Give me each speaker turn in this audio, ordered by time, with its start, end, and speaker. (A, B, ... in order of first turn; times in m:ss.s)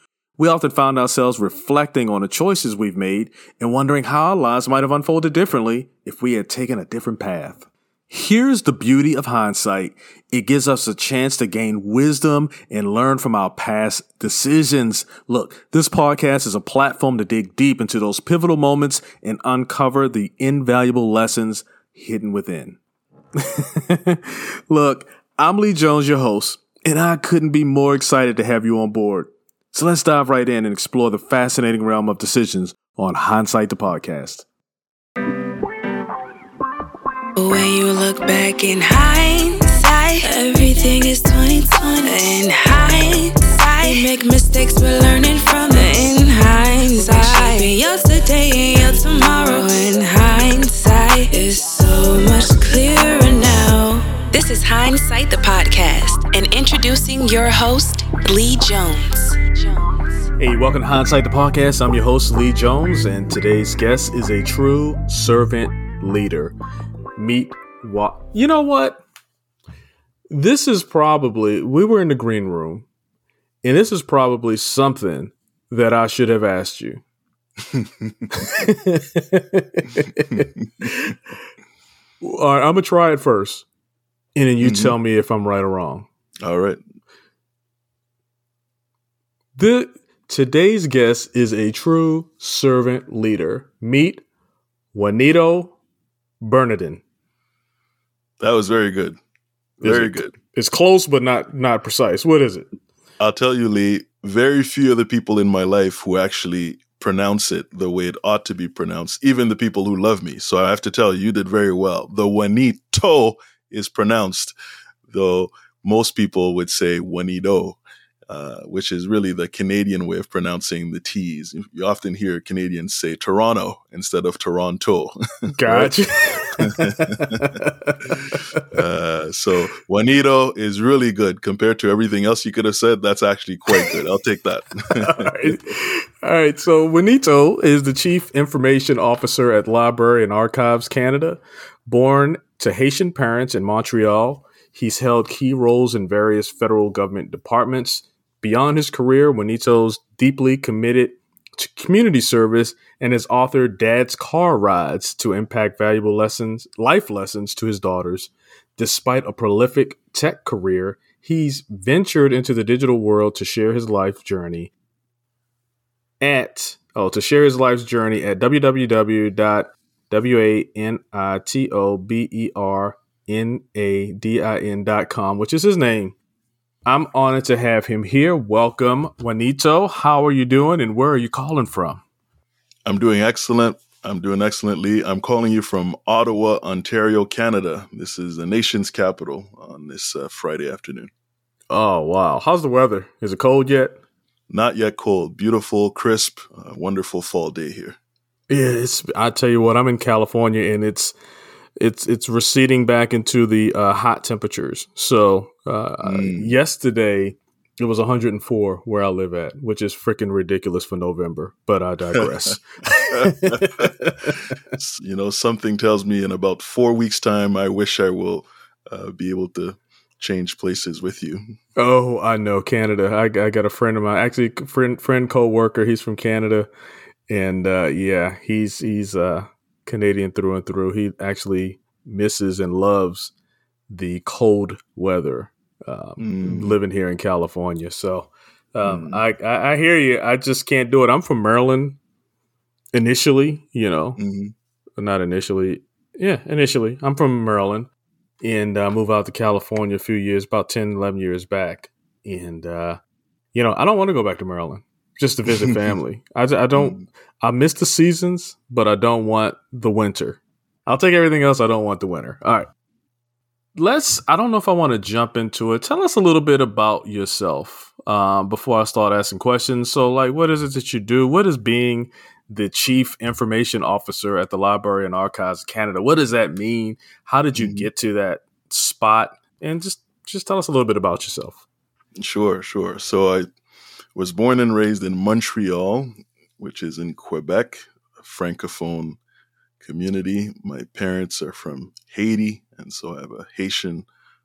0:00.4-0:22.8 A
0:23.4-0:34.5 A
0:37.3-0:59.5 B
1:00.4-1:06.5 A
1:07.2-1:09.0 A
1:10.3-1:12.8 A
1:13.6-1:17.0 A
1:17.7-1:18.3 C
1:18.3-1:21.2 A
1:20.3-1:20.9 C
1:22.2-1:23.6 A
1:24.3-1:26.1 A
1:24.6-1:24.9 C
1:26.4-1:26.8 C
1:29.5-1:34.2 A
1:34.9-1:35.8 A
1:36.4-1:37.0 A
1:38.4-1:39.2 C
1:39.8-1:40.3 C
1:39.8-1:42.7 A
1:43.2-1:54.5 C
1:55.1-2:05.9 C
2:05.5-2:08.6 A
2:06.6-2:07.5 C
2:08.7-2:15.5 C
2:15.0-2:44.7 A
2:46.2-2:56.2 A
2:56.8-3:02.0 A
3:02.8-3:11.1 C
3:11.7-3:14.0 A
3:14.5-3:18.0 C
3:18.5-3:21.1 A
3:21.8-3:34.6 A
3:26.0-3:26.6 C
3:33.1-3:33.9 C
3:34.8-3:41.5 C
3:41.8-3:46.7 A
3:47.3-3:53.3 A
3:53.9-4:02.0 A
3:56.2-3:56.8 C
3:58.8-3:59.2 C
4:02.9-4:04.2 A
4:04.2-4:04.5 C
4:05.0-4:07.9 A
4:08.4-4:13.0 A
4:13.5-4:22.7 A
4:15.5-4:16.0 C
4:16.7-4:17.0 C
4:23.8-4:41.6 A
4:37.6-4:37.9 C
4:42.2-4:43.5 C
4:44.1-4:49.2 C
4:49.8-4:54.0 C